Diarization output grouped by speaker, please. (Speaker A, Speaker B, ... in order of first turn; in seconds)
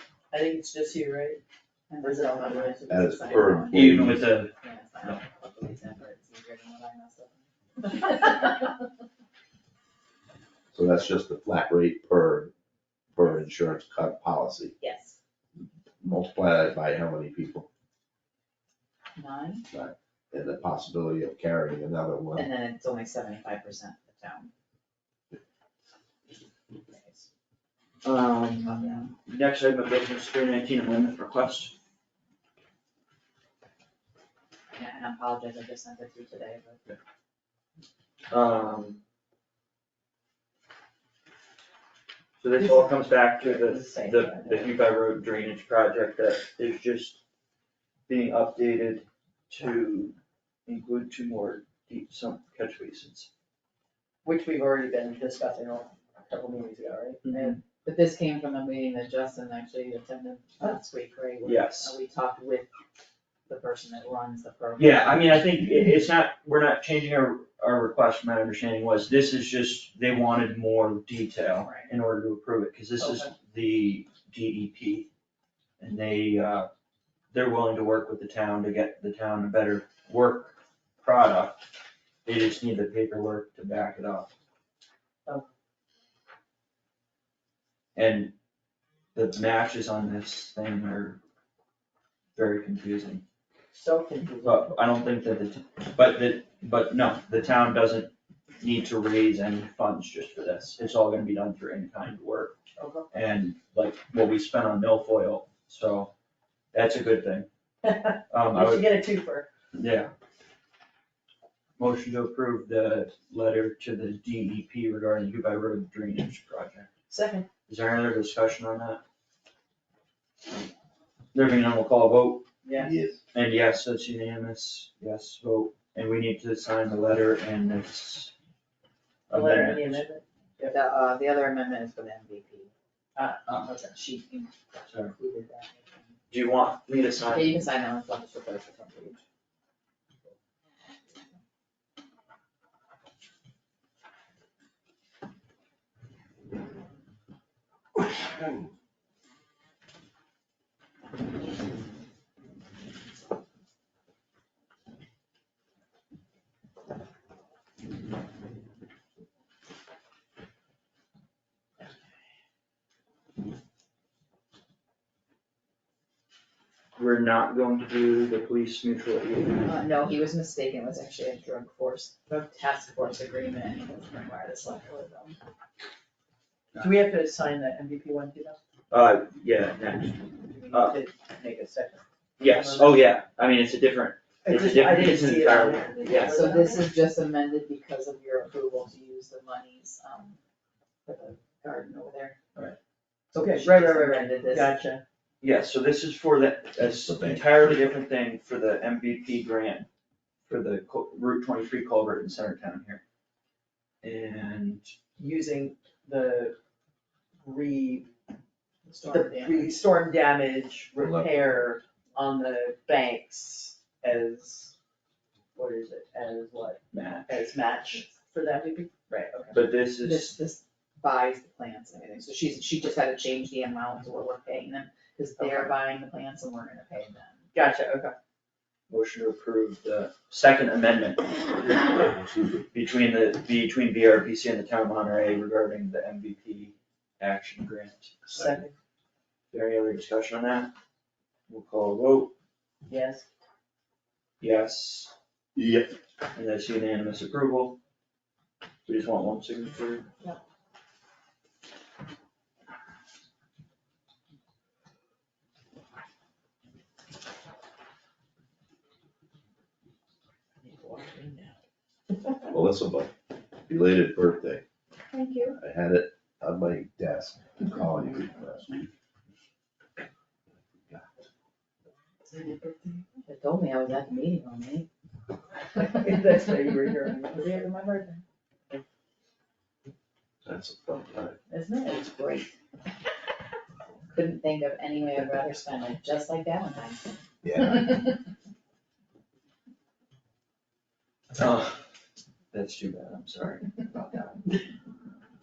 Speaker A: 0.3-1.4, 2.0-2.8, 42.6-44.8, 54.2-57.5, 93.7-94.7, 102.8-103.1, 107.8-109.5, 117.1-117.5, 122.6-122.9, 129.3-130.8, 133.2-133.9, 176.8-178.6, 180.5-183.1, 184.4-186.9, 193.3-195.0, 205.2-206.6, 207.4-208.1, 209.1-214.7, 215.6-219.6, 225.4-225.7, 227.5-228.1, 238.3-238.7, 242.9-243.3, 260.6-261.6, 275.8-277.5
Speaker B: 1.9-8.8, 14.8-15.2, 19.2-19.7, 22.4-24.5, 26.9-27.2, 28.6-29.1, 34.7-36.8, 57.4-62.7, 63.5-65.6, 71.5-71.9, 130.7-132.7, 133.9-136.2, 137.3-139.2, 169.6-175.4, 186.2-190.4, 191.1-192.4, 193.3-194.7, 208.9-209.8, 220.0-227.4, 265.1-265.6, 272.3-274.9, 277.3-278.2, 281.5-282.5, 284.1-287.1
Speaker C: 2.9-4.2, 10.7-12.5, 13.2-14.8, 16.0-17.7, 19.7-22.5, 122.8-123.2, 197.1-197.5, 232.0-232.6, 238.3-238.6, 245.6-245.9, 262.5-263.1, 263.6-264.6, 265.6-268.9, 280.4-281.4, 287.4-287.8
Speaker D: 3.7-5.2, 28.0-31.7, 38.3-39.0, 42.4-47.2, 48.1-50.1, 50.7-53.3, 57.2-57.6, 61.4-62.0, 64.8-75.1, 75.8-76.7, 77.3-81.7, 82.2-84.3, 88.0-88.3, 89.2-91.2, 92.3-93.2, 94.4-102.5, 103.1-106.1, 106.7-107.5, 108.3-108.9, 109.8-110.1, 111.8-116.9, 117.7-119.0, 121.3-122.5, 123.3-128.3, 129.3-130.1, 136.3-137.6, 167.0-169.7, 178.9-181.0, 182.4-186.4, 195.4-199.9, 200.5-203.0, 204.0-204.9, 216.9-217.5, 219.5-220.4, 228.9-231.4, 232.7-238.2, 239.5-240.7, 241.5-242.3, 244.4-245.1, 246.3-247.8, 248.9-250.1, 291.4-291.8, 292.5-294.5